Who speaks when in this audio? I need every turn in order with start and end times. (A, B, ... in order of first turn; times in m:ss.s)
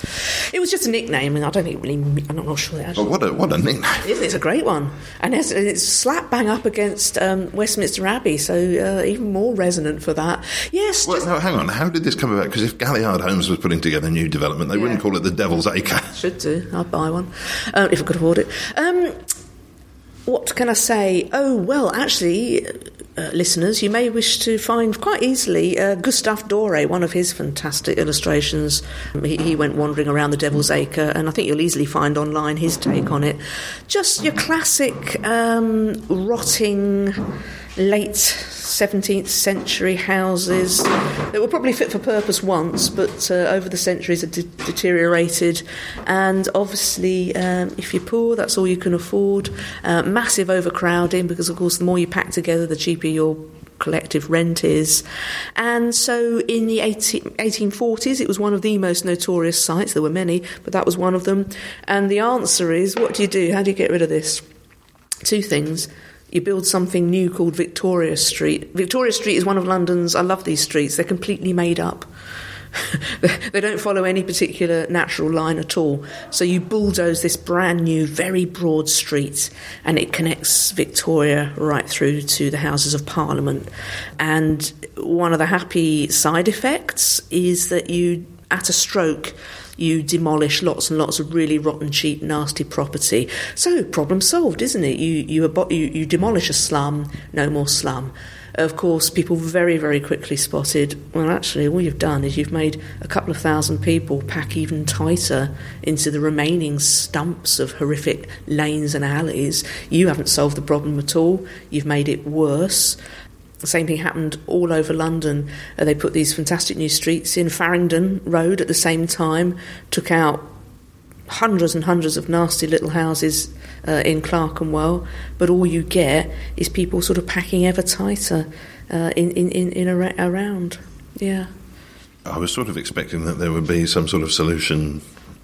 0:00.5-0:03.1 A
0:03.0-0:04.1 B
0:04.0-0:11.3 A
0:11.1-0:16.1 B
0:14.7-0:15.0 A
0:16.1-0:19.2 A
0:20.3-0:37.2 A
0:37.8-0:55.0 A
0:55.6-1:04.4 A
1:05.2-1:12.1 A
1:12.8-1:53.0 A
1:53.6-2:00.5 A
2:01.3-2:11.5 A
2:12.3-2:15.0 B